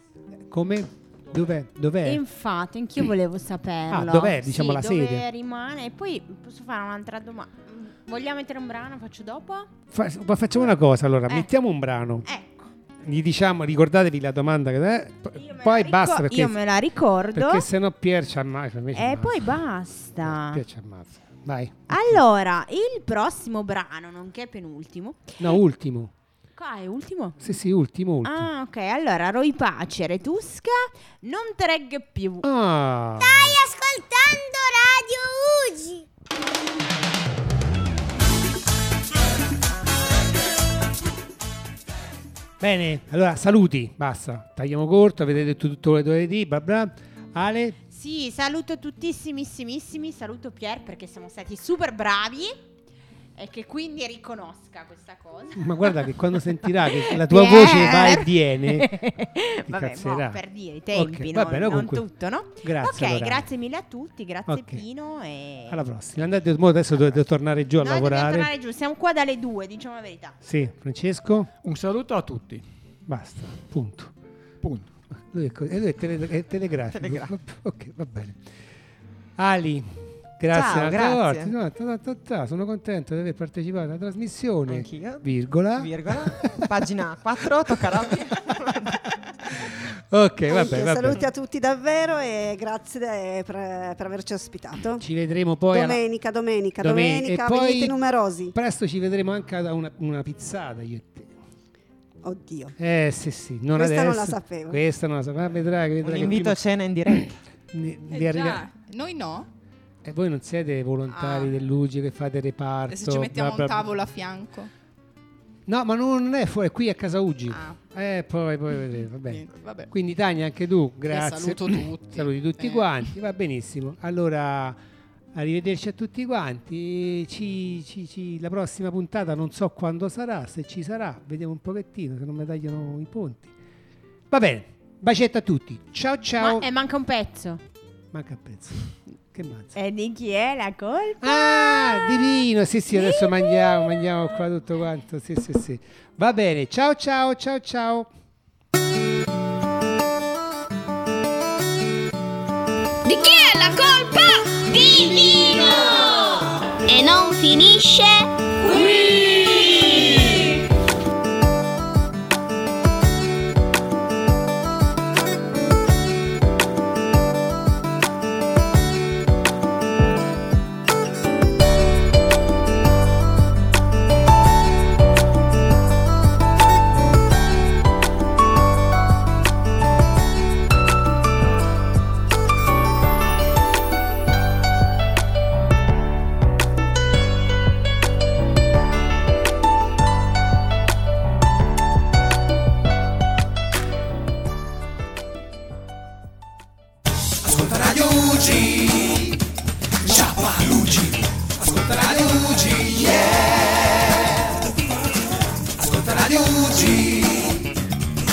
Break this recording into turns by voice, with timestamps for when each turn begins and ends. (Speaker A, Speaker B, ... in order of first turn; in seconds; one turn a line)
Speaker A: 0.5-2.2
Speaker B: 2.0-9.7
Speaker A: 3.9-5.3
Speaker A: 9.9-12.2
Speaker B: 12.2-12.7
Speaker A: 13.0-16.6
Speaker B: 15.3-17.6
Speaker A: 17.3-19.6
Speaker B: 18.9-20.6
Speaker A: 20.2-22.2
Speaker B: 21.9-25.6
Speaker A: 25.4-26.1
Speaker B: 26.6-27.4
Speaker A: 27.4-28.5
Speaker B: 28.2-32.5
Speaker A: 32.4-33.6
Speaker C: 33.2-36.0
Speaker A: 42.6-47.8
Speaker B: 47.9-52.6
Speaker B: 53.4-65.8
Speaker A: 55.5-58.9
Speaker A: 59.7-60.4
Speaker A: 60.9-62.0
Speaker A: 62.6-63.5
Speaker A: 64.5-64.8
Speaker A: 65.7-68.5
Speaker B: 67.8-70.4
Speaker A: 70.4-71.5
Speaker D: 71.6-72.6
Speaker A: 73.1-74.1
Speaker D: 74.6-74.9
Speaker A: 75.2-78.4
Speaker E: 76.9-77.3
Speaker A: 79.4-86.7
Speaker E: 80.5-81.5
Speaker E: 84.7-89.5
Speaker A: 90.1-91.2
Speaker F: 90.5-95.0
Speaker A: 95.0-96.0
Speaker F: 95.7-98.5
Speaker A: 96.8-97.9
Speaker A: 98.5-101.3
Speaker F: 102.2-102.8
Speaker A: 102.8-106.6
Speaker F: 103.7-104.8
Speaker E: 106.0-107.3
Speaker A: 107.7-108.6
Speaker G: 108.1-109.5
Speaker A: 110.0-113.8
Speaker G: 111.1-111.5
Speaker G: 112.9-114.7
Speaker A: 115.7-124.8
Speaker G: 117.5-117.8
Speaker G: 119.2-119.9
Speaker G: 121.1-123.1
Speaker A: 125.3-133.5
Speaker A: 134.3-136.7
Speaker B: 136.4-137.6
Speaker A: 138.1-139.7
Speaker B: 139.7-142.3
Speaker A: 141.2-148.1
Speaker B: 142.9-143.6
Speaker C: 153.0-160.5
Speaker D: 201.9-202.5